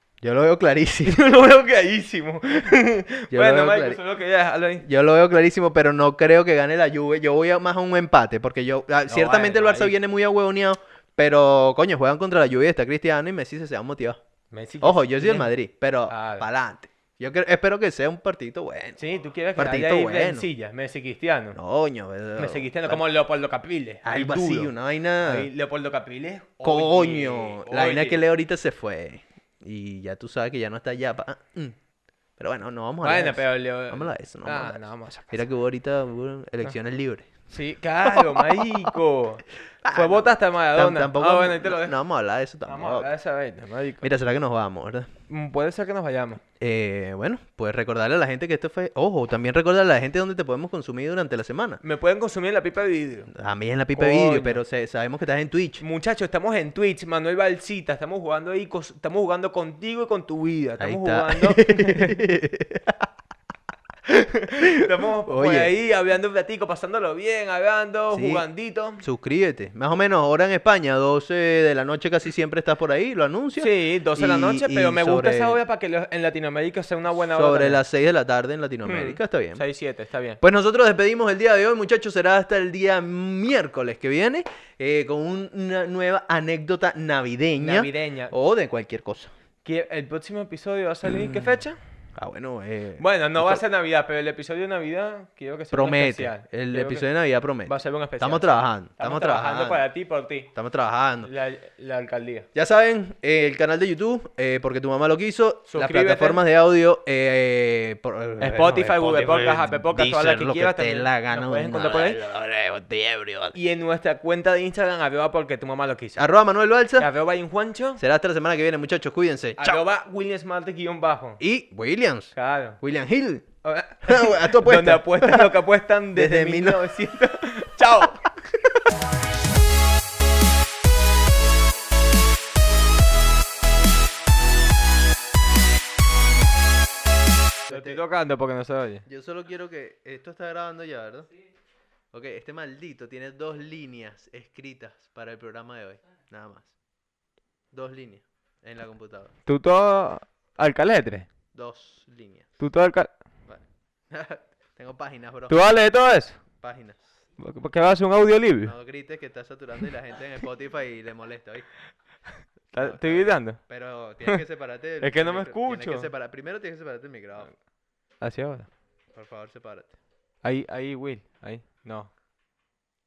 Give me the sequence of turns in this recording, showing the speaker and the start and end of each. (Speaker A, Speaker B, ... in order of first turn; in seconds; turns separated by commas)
Speaker A: 0.2-1.2, Speaker B: 1.0-4.9, Speaker A: 3.3-4.0, Speaker A: 4.8-14.2, Speaker B: 9.1-9.9, Speaker B: 14.5-15.5, Speaker A: 14.8-19.0, Speaker B: 16.1-16.4, Speaker B: 19.0-21.6, Speaker A: 19.6-20.5, Speaker A: 21.5-23.0, Speaker B: 22.4-24.7, Speaker A: 24.0-25.5, Speaker B: 25.2-28.2, Speaker A: 26.6-31.8, Speaker A: 32.4-34.8, Speaker B: 33.0-35.4, Speaker A: 35.3-37.3, Speaker B: 37.5-42.0, Speaker A: 38.1-38.9, Speaker A: 39.8-43.1, Speaker B: 42.7-44.1, Speaker A: 44.0-45.1, Speaker B: 45.3-46.4, Speaker A: 46.6-51.8, Speaker B: 51.8-53.3, Speaker A: 53.3-55.8, Speaker B: 53.9-54.6, Speaker B: 55.8-62.2, Speaker A: 60.8-63.1, Speaker B: 64.1-69.0, Speaker A: 64.6-65.7, Speaker A: 68.1-68.5, Speaker A: 69.0-75.6, Speaker B: 73.6-77.8, Speaker A: 77.1-79.6, Speaker B: 78.8-80.4, Speaker A: 80.4-89.3, Speaker B: 87.6-88.3, Speaker B: 89.7-91.8, Speaker A: 91.0-91.6, Speaker A: 92.2-93.6, Speaker B: 93.0-97.0, Speaker A: 95.7-99.8, Speaker B: 97.7-100.5, Speaker A: 100.5-101.3, Speaker B: 101.2-102.5, Speaker A: 102.5-113.6, Speaker B: 105.7-106.4, Speaker B: 108.4-112.2, Speaker B: 113.5-116.2, Speaker A: 116.2-117.1, Speaker B: 117.0-118.0, Speaker A: 118.0-119.8, Speaker B: 119.6-121.4, Speaker A: 121.4-123.5, Speaker B: 122.3-122.8, Speaker B: 123.6-128.3, Speaker A: 124.0-125.6, Speaker A: 126.1-126.9, Speaker A: 137.7-138.0, Speaker B: 137.7-139.0, Speaker A: 139.1-141.3, Speaker A: 142.1-146.7, Speaker A: 147.7-149.3, Speaker B: 149.5-151.3, Speaker A: 151.6-152.5, Speaker B: 152.6-153.1, Speaker A: 153.5-155.6, Speaker B: 155.5-156.4, Speaker A: 156.6-157.0, Speaker B: 157.4-158.8, Speaker A: 158.7-161.7, Speaker B: 162.7-163.6, Speaker A: 162.8-167.5, Speaker B: 165.0-166.1, Speaker B: 168.2-168.7, Speaker A: 169.1-169.9, Speaker B: 170.4-172.1